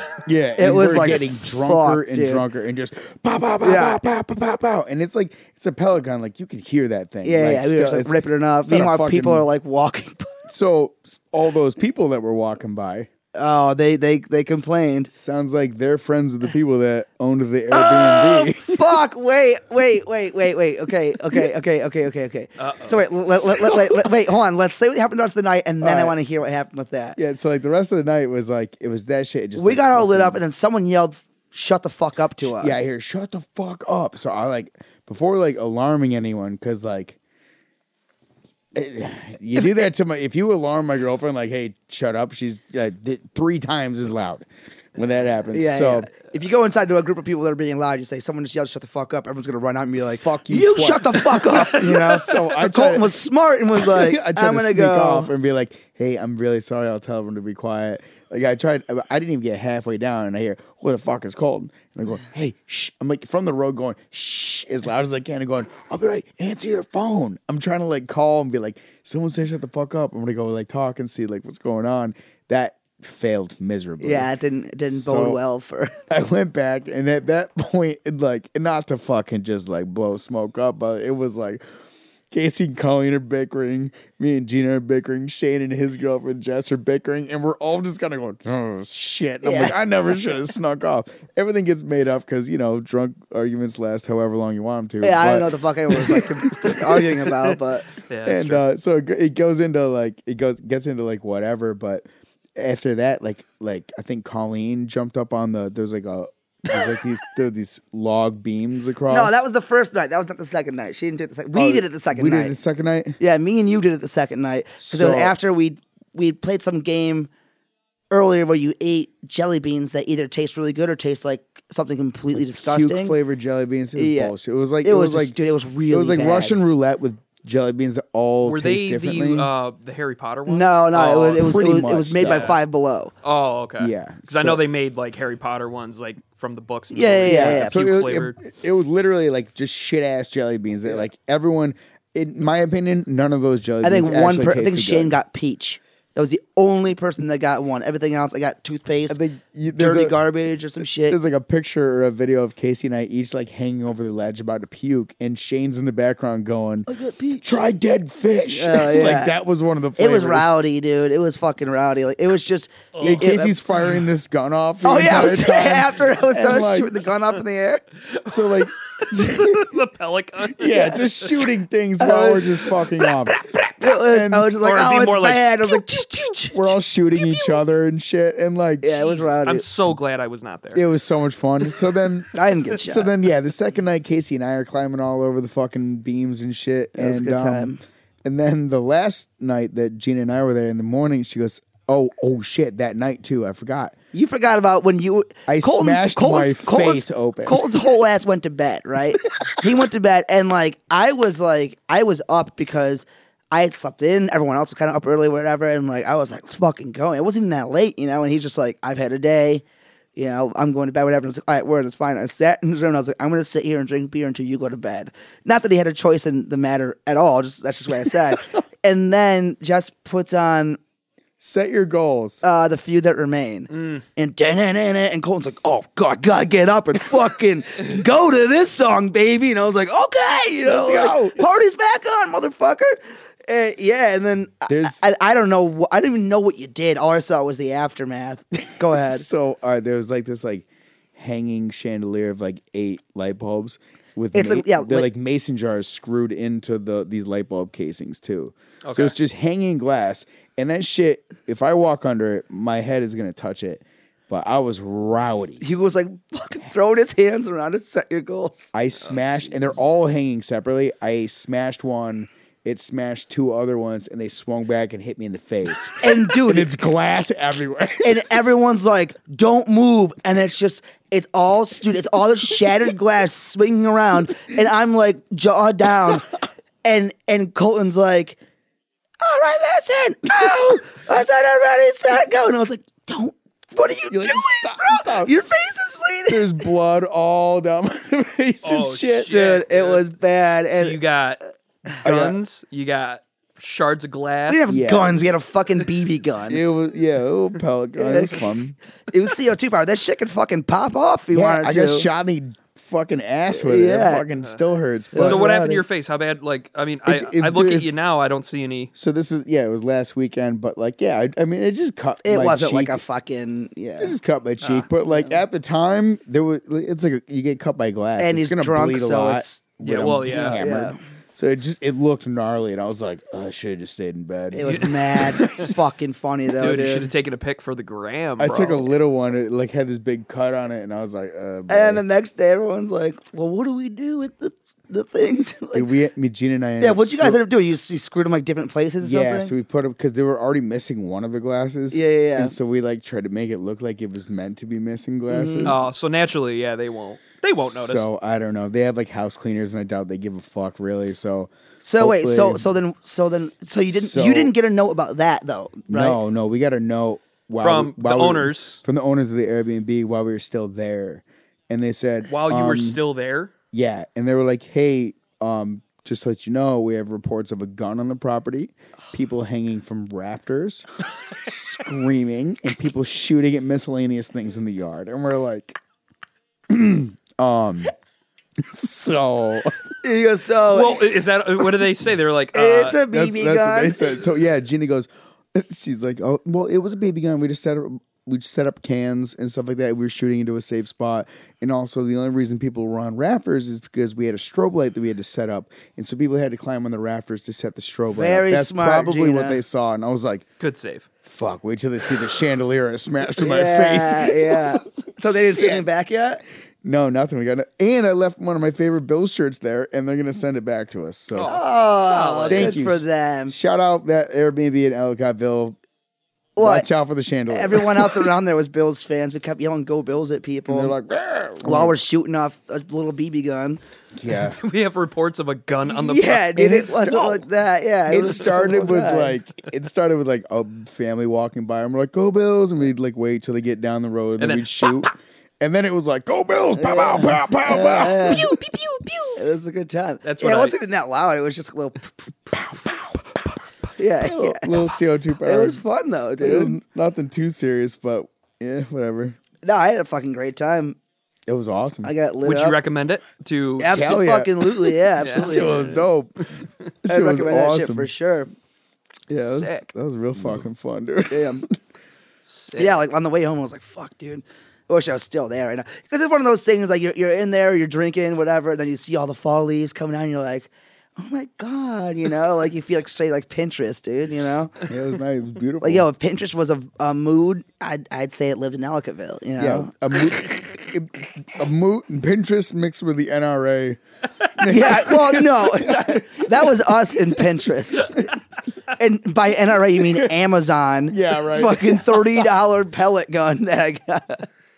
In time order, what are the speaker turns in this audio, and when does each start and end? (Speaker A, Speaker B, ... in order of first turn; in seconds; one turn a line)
Speaker A: 0.2-9.5
Speaker B: 0.6-2.4
Speaker B: 3.6-4.0
Speaker B: 7.2-10.4
Speaker A: 10.5-13.1
Speaker B: 13.3-15.1
Speaker A: 15.1-19.0
Speaker B: 17.7-27.2
Speaker C: 22.6-23.0
Speaker A: 23.5-23.9
Speaker A: 25.8-26.2
Speaker A: 27.2-30.4
Speaker B: 29.6-32.9
Speaker A: 32.4-37.2
Speaker A: 38.7-46.1
Speaker B: 45.5-55.3
Speaker A: 50.1-53.2
Speaker C: 51.5-52.5
Speaker A: 53.7-74.3
Speaker B: 74.0-76.0
Speaker A: 74.9-75.4
Speaker A: 76.1-81.6
Speaker A: 82.3-97.1
Speaker B: 89.4-89.8
Speaker B: 95.0-97.9
Speaker C: 98.0-98.6
Speaker A: 98.2-109.4
Speaker B: 109.1-112.5
Speaker A: 111.5-113.2
Speaker B: 113.2-117.3
Speaker A: 114.8-115.3
Speaker B: 118.1-123.2
Speaker A: 122.3-125.4
Speaker B: 124.0-126.6
Speaker A: 125.9-129.5
Speaker C: 128.4-131.5
Speaker B: 130.5-133.1
Speaker A: 131.3-132.6
Speaker C: 132.2-132.6
Speaker C: 133.2-138.3
Speaker A: 133.8-134.6
Speaker B: 136.9-137.7
Speaker A: 137.2-145.2
Speaker B: 143.8-151.2
Speaker A: 149.1-150.2
Speaker A: 151.1-156.9
Speaker B: 156.9-157.6
Speaker A: 157.4-160.5
Speaker B: 158.5-159.3
Speaker B: 160.0-163.6
Speaker A: 163.0-166.9
Speaker B: 164.8-167.8
Speaker C: 168.1-171.5
Speaker A: 168.2-169.8
Speaker A: 170.5-173.4
Speaker B: 172.0-172.8
Speaker C: 173.0-174.0
Speaker B: 173.8-177.4
Speaker A: 174.1-174.5
Speaker C: 174.6-175.8
Speaker A: 176.5-179.2
Speaker B: 178.8-179.7
Speaker C: 179.3-180.8
Speaker A: 180.7-187.7
Speaker B: 182.3-183.1
Speaker B: 186.9-187.8
Speaker A: 188.2-193.9
Speaker B: 194.1-209.6
Speaker A: 195.5-197.8
Speaker B: 210.2-220.8
Speaker A: 221.4-222.4
Speaker B: 222.4-239.2
Speaker A: 230.6-231.4
Speaker A: 234.7-235.0
Speaker A: 238.8-255.6
Speaker B: 244.3-245.1
Speaker C: 248.8-249.1
Speaker B: 255.6-258.7
Speaker A: 258.7-268.5
Speaker C: 259.0-259.6
Speaker B: 266.0-266.7
Speaker B: 268.0-276.3
Speaker B: 276.8-278.4
Speaker B: 279.2-286.6
Speaker A: 284.1-285.3
Speaker A: 286.3-289.3
Speaker C: 288.6-290.0
Speaker B: 289.3-291.0
Speaker C: 290.7-291.4
Speaker C: 291.9-294.8
Speaker A: 292.0-292.4
Speaker B: 294.5-296.6
Speaker A: 294.7-295.2
Speaker A: 296.5-298.8
Speaker B: 298.0-298.5
Speaker B: 299.1-302.1
Speaker A: 301.3-305.4
Speaker B: 303.5-304.2
Speaker B: 305.1-305.8
Speaker C: 305.1-308.9
Speaker A: 307.1-307.9
Speaker A: 308.9-313.0
Speaker B: 312.2-314.1
Speaker A: 314.0-325.7
Speaker B: 318.2-319.7
Speaker C: 319.8-320.6
Speaker B: 320.2-321.0
Speaker B: 324.5-327.1
Speaker C: 324.6-325.7
Speaker C: 326.6-328.9
Speaker A: 328.4-332.0
Speaker B: 331.7-335.9
Speaker A: 335.7-337.4
Speaker B: 336.8-339.5
Speaker A: 339.0-345.8
Speaker B: 341.9-342.5
Speaker B: 345.3-345.8
Speaker C: 345.6-348.1
Speaker A: 347.6-352.6
Speaker B: 351.8-356.2
Speaker A: 353.9-354.5
Speaker A: 355.9-363.0
Speaker C: 357.6-358.8
Speaker C: 362.3-363.5
Speaker A: 363.7-375.8
Speaker A: 376.7-377.9
Speaker A: 378.6-379.8
Speaker B: 380.0-381.1
Speaker C: 380.7-383.0
Speaker B: 382.5-384.2
Speaker A: 383.1-400.4
Speaker B: 398.1-399.6
Speaker C: 400.6-401.1
Speaker A: 401.2-405.9
Speaker B: 403.4-406.4
Speaker A: 406.8-411.6
Speaker C: 411.3-412.8
Speaker B: 411.4-413.5
Speaker A: 412.5-415.8
Speaker B: 416.6-416.9
Speaker A: 416.6-418.3
Speaker B: 417.5-420.9
Speaker A: 420.7-422.0
Speaker B: 421.6-423.8
Speaker A: 424.1-424.6
Speaker C: 424.6-427.4
Speaker B: 425.8-429.4
Speaker A: 426.6-427.0
Speaker A: 428.1-438.6
Speaker C: 428.3-428.6
Speaker C: 434.4-435.1
Speaker B: 436.8-438.5
Speaker C: 437.9-439.4
Speaker B: 439.4-442.9
Speaker C: 440.2-440.8
Speaker B: 443.9-444.8
Speaker A: 444.2-445.8
Speaker B: 445.4-446.8
Speaker A: 446.4-449.4
Speaker B: 449.6-451.0
Speaker A: 451.5-452.1
Speaker B: 452.0-452.8
Speaker C: 452.4-454.1
Speaker B: 453.8-455.8
Speaker A: 453.9-456.4
Speaker C: 455.2-456.6
Speaker A: 457.0-458.1
Speaker B: 457.1-458.5
Speaker A: 459.3-461.7
Speaker C: 459.3-459.9
Speaker B: 461.3-461.6
Speaker C: 462.4-463.0
Speaker B: 462.8-474.8
Speaker A: 474.9-476.1
Speaker B: 475.8-479.9
Speaker A: 479.6-484.0
Speaker A: 484.6-486.9
Speaker B: 484.6-488.3
Speaker B: 488.9-494.4
Speaker A: 490.0-490.3
Speaker A: 491.1-492.4